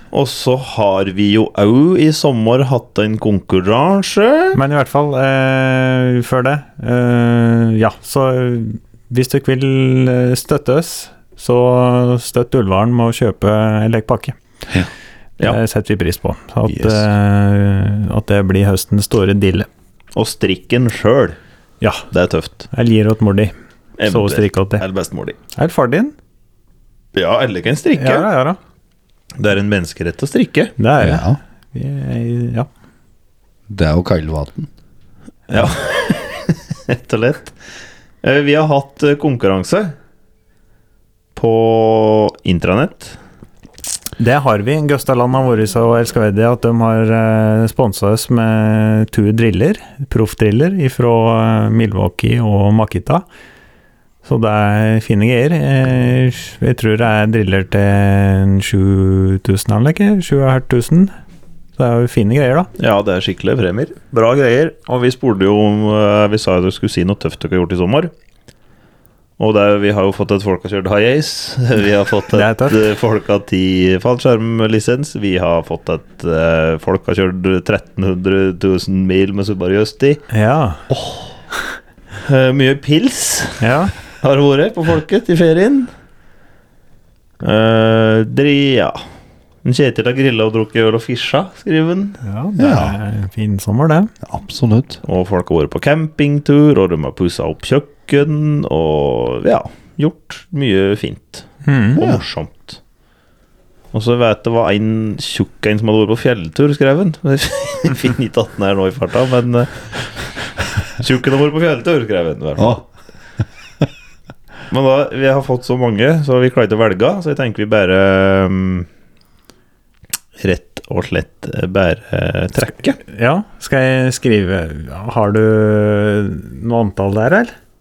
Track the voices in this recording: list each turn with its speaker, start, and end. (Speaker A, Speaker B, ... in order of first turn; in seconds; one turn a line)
Speaker A: 0.1-4.6
Speaker B: 4.5-14.4
Speaker B: 15.4-19.7
Speaker C: 16.7-17.0
Speaker A: 20.1-21.4
Speaker A: 22.1-22.7
Speaker B: 22.7-23.5
Speaker A: 24.0-25.4
Speaker B: 24.1-24.8
Speaker B: 25.6-26.1
Speaker A: 27.1-28.3
Speaker B: 27.9-28.6
Speaker A: 29.4-30.7
Speaker B: 30.8-32.7
Speaker C: 31.0-31.4
Speaker C: 33.7-34.7
Speaker A: 35.5-37.6
Speaker A: 38.2-40.0
Speaker A: 41.4-43.2
Speaker B: 44.2-53.2
Speaker B: 54.2-61.1
Speaker B: 61.8-62.7
Speaker A: 62.8-68.1
Speaker A: 69.4-80.2
Speaker B: 72.3-72.8
Speaker B: 80.3-80.8
Speaker A: 82.2-83.6
Speaker B: 83.6-83.9
Speaker A: 84.2-85.9
Speaker A: 87.4-89.0
Speaker A: 89.6-92.2
Speaker B: 92.2-94.1
Speaker C: 92.6-93.0
Speaker C: 94.2-95.0
Speaker A: 95.0-102.8
Speaker B: 101.7-102.0
Speaker A: 103.9-109.9
Speaker A: 111.0-112.8
Speaker C: 112.6-112.8
Speaker A: 114.7-118.9
Speaker A: 120.4-123.0
Speaker B: 123.1-127.5